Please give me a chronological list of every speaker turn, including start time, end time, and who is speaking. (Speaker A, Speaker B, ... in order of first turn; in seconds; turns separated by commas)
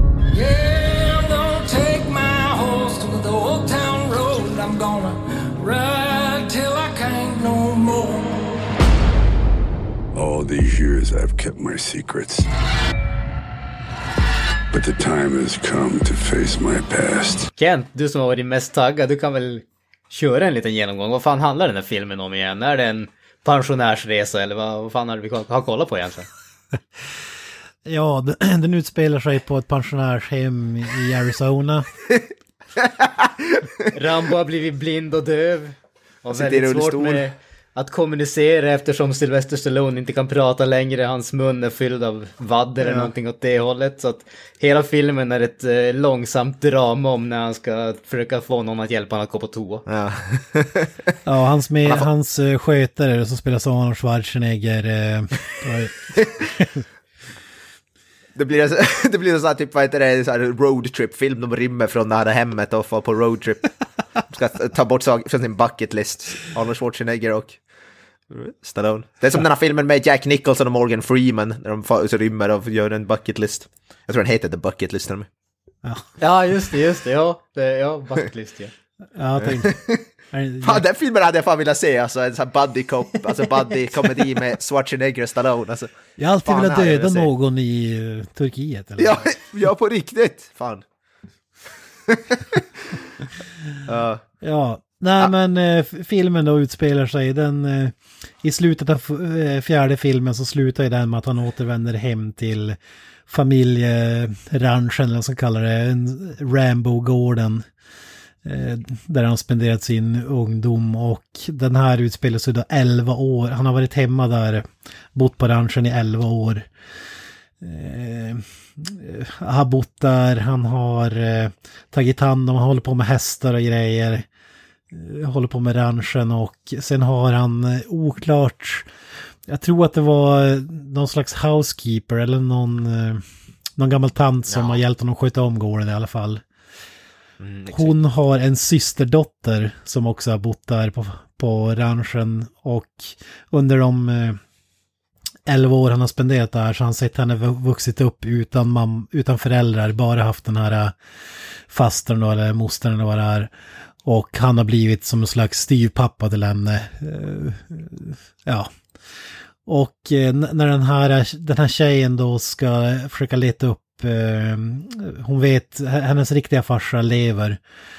Speaker A: 0.3-8.7, Speaker B: 10.1-12.5, Speaker B: 14.7-17.5, Speaker C: 17.6-26.3, Speaker D: 27.9-31.9, Speaker E: 32.8-33.9, Speaker C: 33.9-49.9, Speaker E: 36.3-37.2, Speaker E: 42.8-43.1, Speaker E: 49.9-51.1, Speaker D: 51.2-56.1, Speaker E: 58.4-67.6, Speaker E: 68.3-75.3, Speaker D: 75.8-76.1, Speaker C: 76.2-78.7, Speaker D: 79.2-80.8, Speaker E: 79.4-80.1, Speaker E: 80.6-85.9, Speaker D: 86.2-89.3, Speaker E: 86.4-87.3, Speaker E: 89.0-90.8, Speaker E: 92.1-92.6, Speaker E: 93.9-94.2, Speaker D: 94.4-107.7, Speaker D: 108.5-116.7, Speaker D: 117.6-124.2, Speaker D: 124.9-128.9, Speaker D: 129.5-133.2, Speaker D: 133.8-136.4, Speaker E: 134.5-134.8, Speaker E: 137.4-138.0, Speaker D: 137.7-144.4, Speaker D: 145.5-151.0, Speaker D: 151.7-153.5, Speaker D: 154.0-158.7, Speaker D: 159.7-167.6